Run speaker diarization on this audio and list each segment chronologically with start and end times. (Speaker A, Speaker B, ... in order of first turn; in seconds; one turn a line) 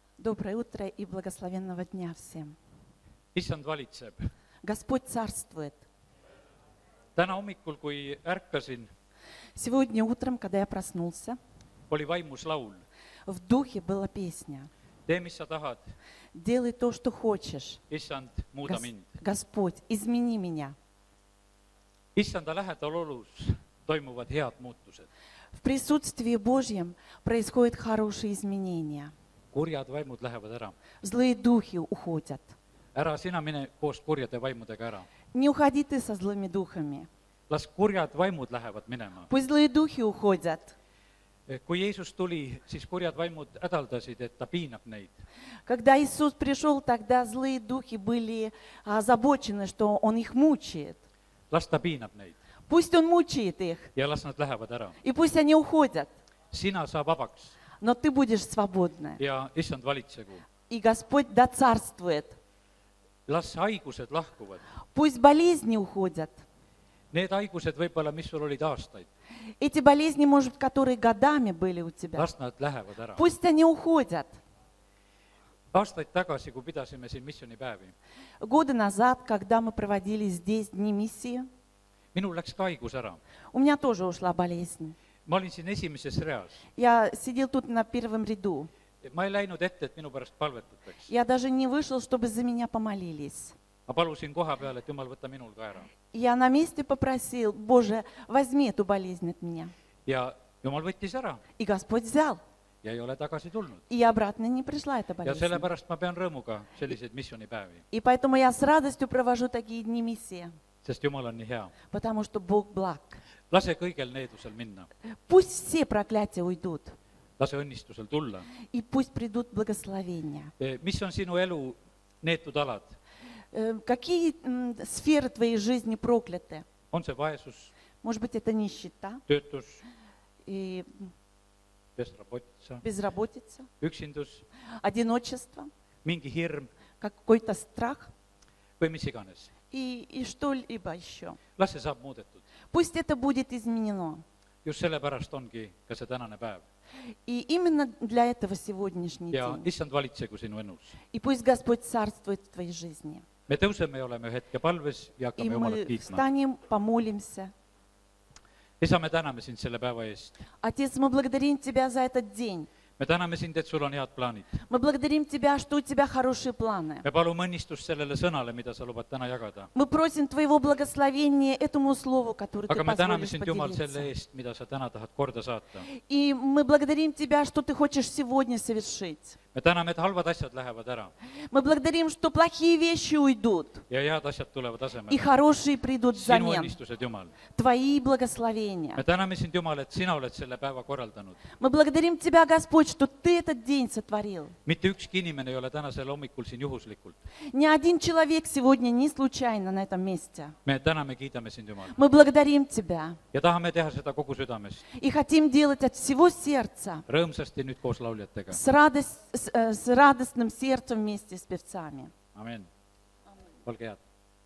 Speaker A: 0.2-2.5
Speaker B: 3.3-4.3
Speaker A: 4.6-5.8
Speaker B: 7.2-8.9
Speaker A: 9.5-11.4
Speaker B: 11.9-12.8
Speaker A: 13.3-14.7
Speaker B: 15.1-15.9
Speaker A: 16.3-17.8
Speaker B: 17.9-19.1
Speaker A: 18.7-20.8
Speaker B: 22.1-25.1
Speaker A: 25.6-29.1
Speaker B: 29.5-30.8
Speaker A: 31.0-32.5
Speaker B: 32.9-35.0
Speaker A: 35.3-37.1
Speaker B: 37.5-39.3
Speaker A: 39.3-40.7
Speaker B: 41.5-45.2
Speaker A: 45.6-51.0
Speaker B: 51.5-52.4
Speaker A: 52.7-53.9
Speaker B: 53.9-55.0
Speaker A: 55.0-56.1
Speaker B: 56.5-57.5
Speaker A: 57.8-59.2
Speaker B: 59.2-60.4
Speaker A: 60.7-62.4
Speaker B: 63.3-64.6
Speaker A: 64.9-66.4
Speaker B: 67.1-69.1
Speaker A: 69.6-72.3
Speaker B: 72.2-73.2
Speaker A: 73.2-74.4
Speaker B: 75.7-77.9
Speaker A: 78.4-81.5
Speaker B: 82.1-83.2
Speaker A: 83.5-85.0
Speaker B: 85.2-86.6
Speaker A: 86.8-88.7
Speaker B: 89.0-91.1
Speaker A: 91.1-93.5
Speaker B: 93.9-95.9
Speaker A: 96.1-99.7
Speaker B: 100.0-101.4
Speaker A: 101.6-102.4
Speaker B: 102.8-103.8
Speaker A: 103.9-105.7
Speaker B: 105.2-107.8
Speaker A: 107.9-110.5
Speaker B: 110.8-111.7
Speaker A: 111.9-113.2
Speaker B: 113.5-114.9
Speaker A: 115.3-117.0
Speaker B: 117.4-118.5
Speaker A: 118.7-120.5
Speaker B: 120.6-123.0
Speaker A: 123.5-126.7
Speaker B: 126.9-127.7
Speaker A: 128.0-129.2
Speaker B: 129.3-129.8
Speaker A: 130.4-131.1
Speaker B: 132.0-132.8
Speaker A: 132.8-133.7
Speaker B: 133.8-134.4
Speaker A: 134.8-135.7
Speaker B: 136.0-136.7
Speaker A: 137.0-138.1
Speaker B: 138.8-139.5
Speaker A: 139.7-141.4
Speaker B: 141.6-142.4
Speaker A: 142.7-144.2
Speaker B: 144.6-146.6
Speaker A: 147.2-149.7
Speaker B: 149.3-151.0
Speaker A: 151.1-153.2
Speaker B: 153.5-156.2
Speaker A: 155.4-157.5
Speaker B: 158.8-160.3
Speaker A: 160.6-162.7
Speaker B: 163.0-164.6
Speaker A: 164.7-167.0
Speaker B: 167.0-169.7
Speaker A: 169.7-174.1
Speaker B: 172.7-175.9
Speaker A: 176.1-179.4
Speaker B: 179.5-181.1
Speaker A: 181.5-183.8
Speaker B: 183.9-185.3
Speaker A: 185.1-186.8
Speaker B: 186.1-187.3
Speaker A: 187.5-189.0
Speaker B: 189.0-191.4
Speaker A: 191.6-194.5
Speaker B: 194.6-197.2
Speaker A: 197.5-200.5
Speaker B: 200.6-201.9
Speaker A: 201.9-203.2
Speaker B: 203.3-204.8
Speaker A: 205.0-207.0
Speaker B: 207.1-208.6
Speaker A: 208.5-212.1
Speaker B: 212.3-212.7
Speaker B: 213.7-214.0